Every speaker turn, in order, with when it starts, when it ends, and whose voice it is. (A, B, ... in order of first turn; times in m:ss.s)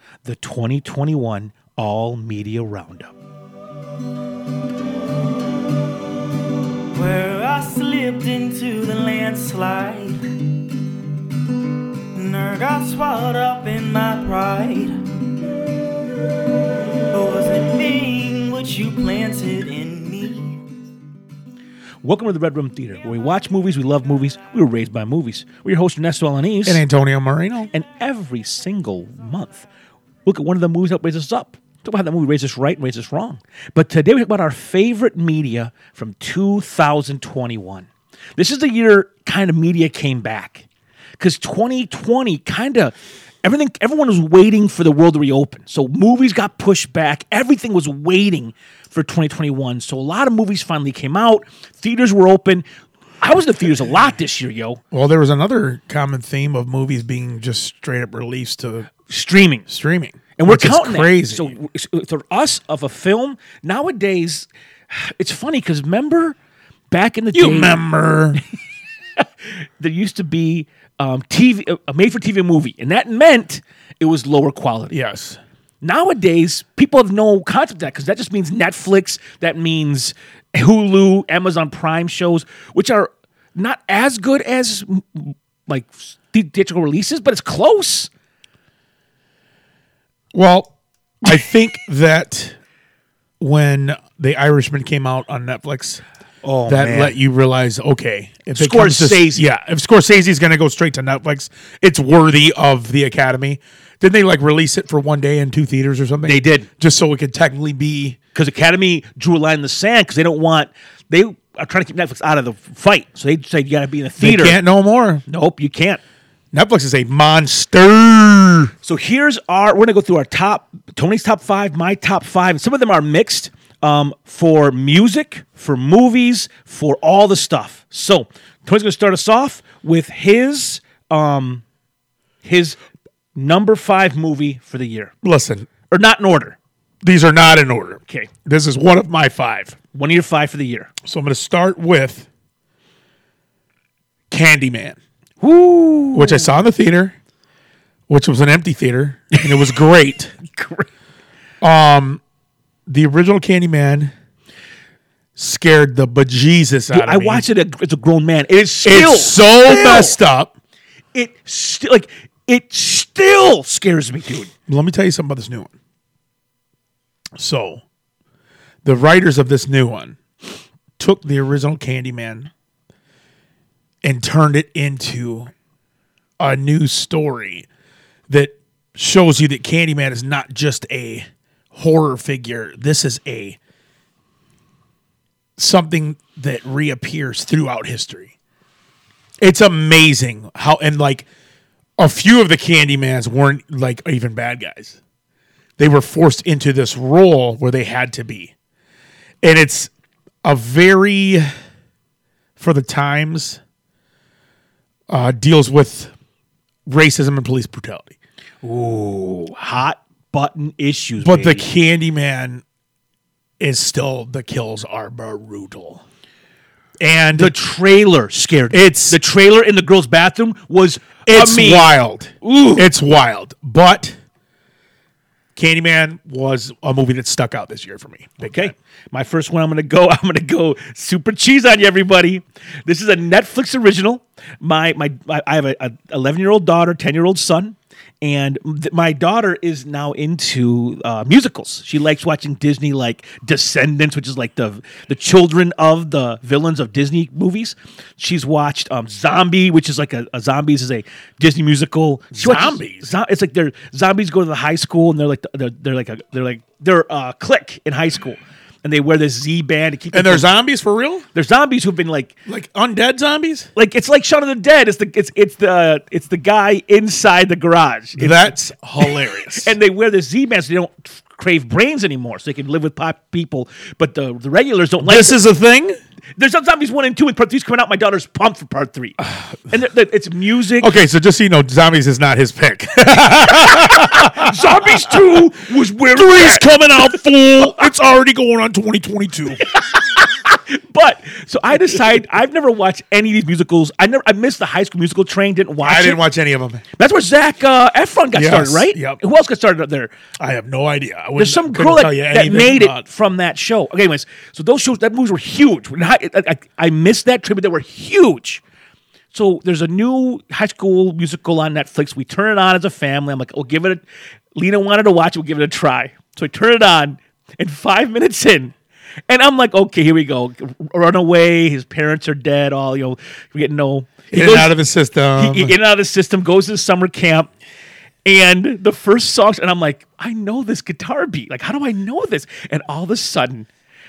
0:00.2-0:03.1 A
0:07.0-0:10.2 B
0:12.1-0:15.3 B
0:17.1-0:20.6 B
0:22.0-0:26.8 A
0:26.7-0:27.7 C
0:27.7-0:29.7 A
0:30.3-0:40.7 A
0:41.2-0:52.6 A
0:53.2-0:54.8 A
0:54.9-0:58.9 C
0:59.1-0:59.7 A
0:59.7-1:01.5 C
1:00.4-1:06.4 A
1:06.9-1:07.8 A
1:07.3-1:08.4 C
1:09.8-1:14.9 A
1:14.9-1:15.4 C
1:15.8-1:28.1 A
1:30.3-1:32.6 C
1:33.4-1:36.0 C
1:36.4-1:37.2 A
1:36.7-1:48.2 C
1:38.6-1:39.4 A
1:46.2-1:46.7 A
1:48.4-1:54.6 A
1:54.2-1:55.2 C
1:55.3-1:56.0 A
1:56.5-1:58.7 C
1:58.8-2:11.6 A
2:12.4-2:12.8 A
2:13.4-2:15.1 A
2:15.2-2:15.7 C
2:15.9-2:16.6 A
2:17.0-2:19.8 C
2:19.9-2:20.9 A
2:21.0-2:22.3 C
2:24.3-2:25.0 C
2:25.4-2:26.5 A
2:26.1-2:27.2 C
2:28.1-2:30.4 C
2:29.4-2:29.7 A
2:30.4-2:30.9 A
2:31.6-2:32.2 C
2:32.9-2:34.1 C
2:35.4-2:37.5 C
2:36.9-2:40.2 A
2:38.8-2:40.5 C
2:41.2-2:44.5 A
2:44.7-2:45.7 C
2:47.4-2:47.8 C
2:48.8-2:50.2 C
2:51.0-2:52.5 C
2:54.0-2:55.5 C
2:56.4-2:57.7 C
2:58.3-3:03.6 C
3:05.6-3:08.3 C
3:09.4-3:11.3 C
3:12.0-3:15.0 C
3:15.8-3:18.5 C
3:19.4-3:19.9 C
3:20.4-3:21.5 C
3:22.6-3:23.6 C
3:25.1-3:26.1 C
3:26.9-3:28.1 C
3:28.6-3:31.7 A
3:31.2-3:32.6 C
3:33.6-3:36.0 C
3:37.0-3:37.5 C
3:37.4-3:42.9 A
3:38.7-3:39.2 C
3:41.2-3:44.2 C
3:45.6-3:48.7 C
3:48.4-4:20.5 A
4:12.3-4:13.1 C
4:20.1-4:21.2 C
4:21.3-4:22.3 A
4:22.5-4:23.7 C
4:23.8-4:28.5 A
4:28.2-4:29.7 C
4:29.5-4:35.4 A
4:35.0-4:36.0 C
4:36.4-4:41.0 A
4:40.8-4:45.2 C
4:43.4-4:47.1 A
4:46.1-4:49.6 C
4:49.6-4:56.2 A
4:55.8-4:56.8 C
4:57.0-5:00.1 A
4:58.3-4:59.2 C
5:00.4-5:03.0 C
5:01.4-5:08.6 A
5:09.3-5:14.0 A
5:14.6-5:18.7 A
5:19.3-5:24.7 A
5:24.3-5:25.8 C
5:25.4-5:27.5 A
5:28.2-5:33.7 A